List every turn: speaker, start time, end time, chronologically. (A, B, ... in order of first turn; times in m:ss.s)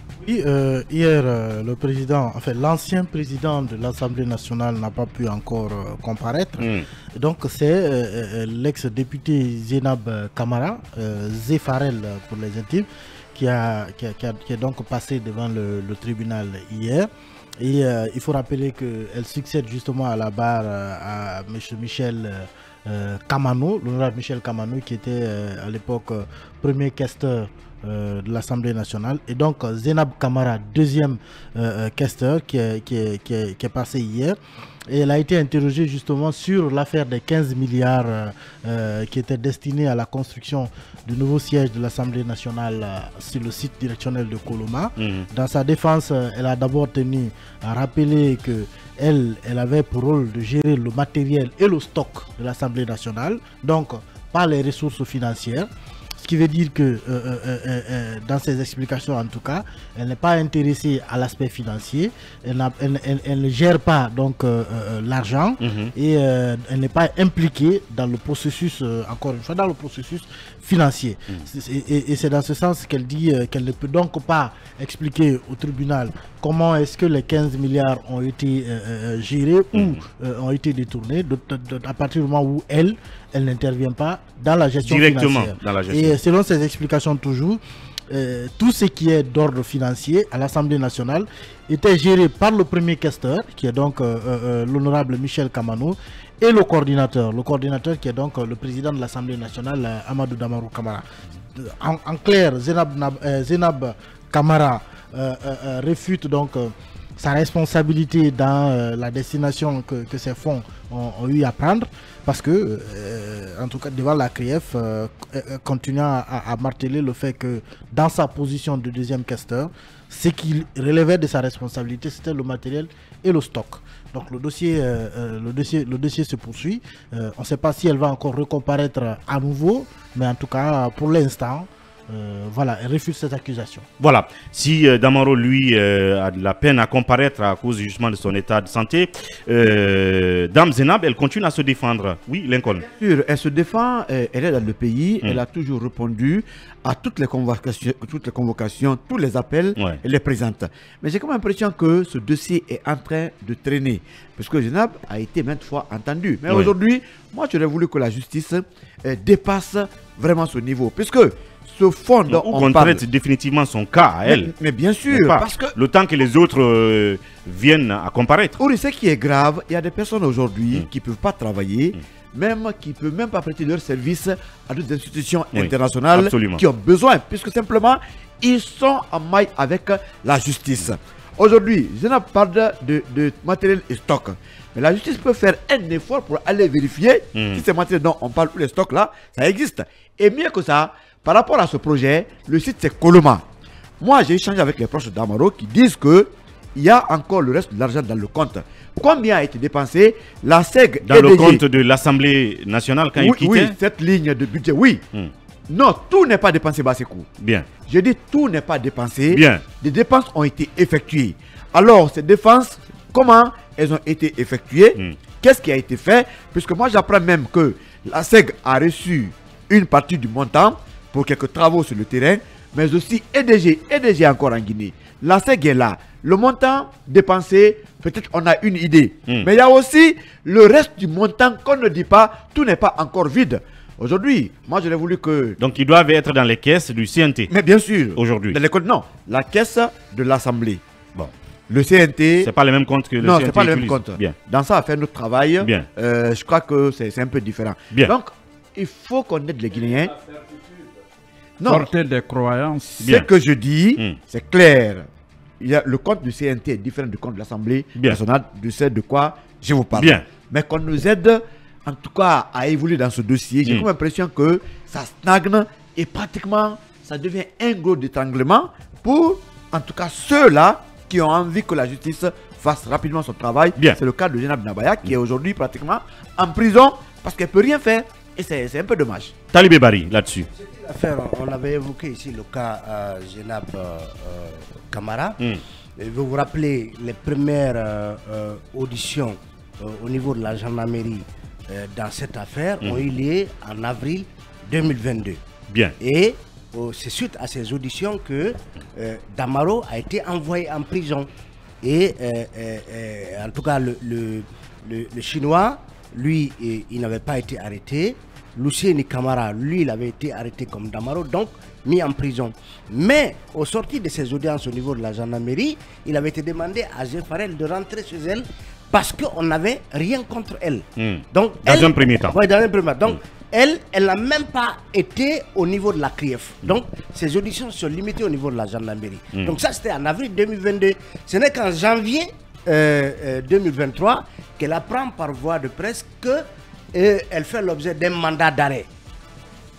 0:00.2-0:17.1 A
0:06.6-0:06.9 B
0:17.6-0:34.4 A
0:34.9-1:41.0 A
0:45.0-0:45.2 B
1:05.6-1:05.9 B
1:19.7-1:20.0 B
1:24.8-1:26.2 B
1:41.6-2:13.8 A
2:14.0-2:22.8 B
2:22.8-2:43.0 C
2:36.5-2:36.7 B
2:42.3-2:44.5 B
2:44.3-2:45.8 C
2:45.1-2:48.6 B
2:48.6-3:13.4 C
2:55.5-2:56.6 B
3:07.3-3:07.6 B
3:14.0-3:21.6 C
3:21.0-3:23.8 B
3:23.2-3:25.0 C
3:25.7-3:27.3 C
3:27.4-3:27.7 B
3:27.9-3:55.6 C
3:29.3-3:29.6 B
3:55.6-3:57.5 B
3:57.5-4:00.8 C
3:58.2-3:58.6 B
4:01.7-4:02.5 C
4:02.4-4:04.3 B
4:03.2-4:10.2 C
4:05.6-4:05.9 B
4:10.3-4:10.9 D
4:11.6-4:11.9 C
4:11.6-4:13.2 D
4:13.0-4:13.3 B
4:13.0-4:15.1 C
4:15.6-4:39.3 C
4:20.0-4:20.2 B
4:39.5-4:40.5 B
4:40.6-4:45.4 E
4:46.0-4:55.4 E
4:55.7-4:55.9 B
4:56.0-5:01.3 E
5:01.8-5:38.9 E
5:21.0-5:22.4 B